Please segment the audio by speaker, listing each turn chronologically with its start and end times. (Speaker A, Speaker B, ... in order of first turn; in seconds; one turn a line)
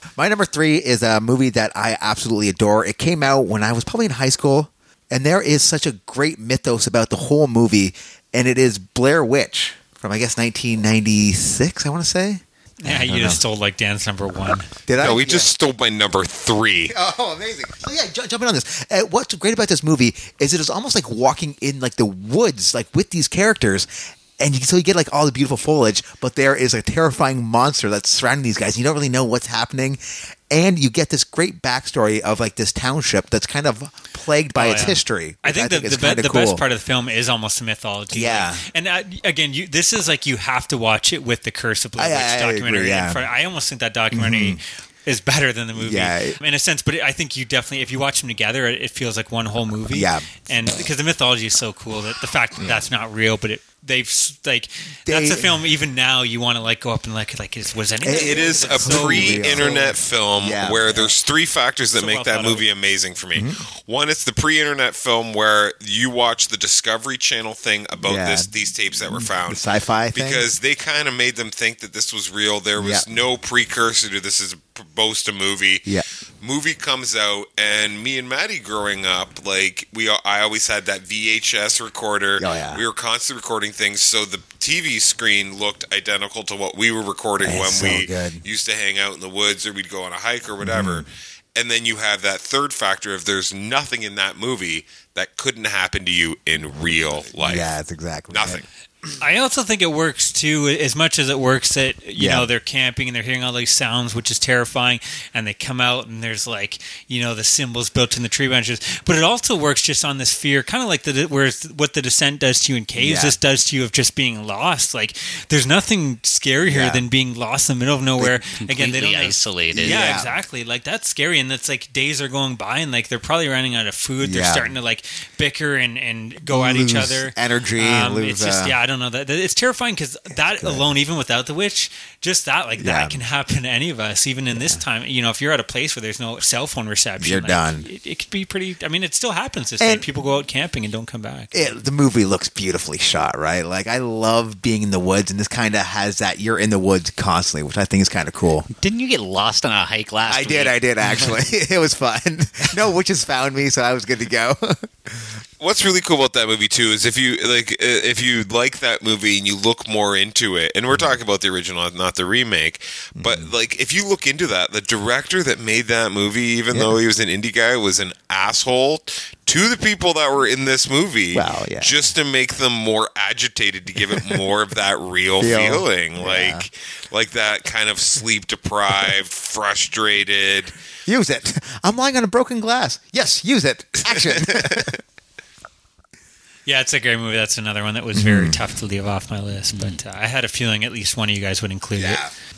Speaker A: 0.2-13.4
Speaker B: 12.8-14.7
Speaker A: 14.9-15.5
Speaker C: 15.0-16.9
Speaker A: 16.9-36.6
Speaker B: 34.5-59.7
Speaker A: 38.1-38.6
Speaker A: 42.0-43.2
Speaker A: 44.1-44.6
Speaker A: 45.8-46.4
Speaker A: 49.9-50.3
Speaker A: 55.0-55.6
Speaker A: 58.0-61.2
Speaker C: 58.1-97.7
Speaker B: 61.9-62.6
Speaker A: 63.3-63.6
Speaker A: 68.0-68.5
Speaker A: 69.0-70.5
Speaker A: 72.8-73.0
Speaker A: 82.4-82.8
Speaker A: 87.4-88.4
Speaker A: 90.6-91.1
Speaker A: 97.4-98.6
Speaker C: 98.3-98.6
Speaker B: 99.2-141.7
Speaker A: 102.2-102.5
Speaker A: 113.0-113.3
Speaker A: 116.6-117.0
Speaker D: 118.6-120.0
Speaker A: 119.7-120.3
Speaker A: 124.2-124.7
Speaker A: 126.4-128.8
Speaker A: 130.6-130.9
Speaker A: 132.8-133.2
Speaker A: 134.5-134.8
Speaker A: 137.2-137.9
Speaker A: 139.8-140.1
Speaker A: 141.5-148.7
Speaker D: 148.7-151.2
Speaker A: 150.3-155.4
Speaker C: 155.6-180.8
Speaker A: 160.9-161.2
Speaker A: 163.2-163.5
Speaker A: 171.3-172.1
Speaker A: 175.4-176.7
Speaker A: 181.1-185.0
Speaker C: 184.1-184.9
Speaker B: 186.7-192.2
Speaker A: 188.1-188.6
Speaker A: 191.9-192.3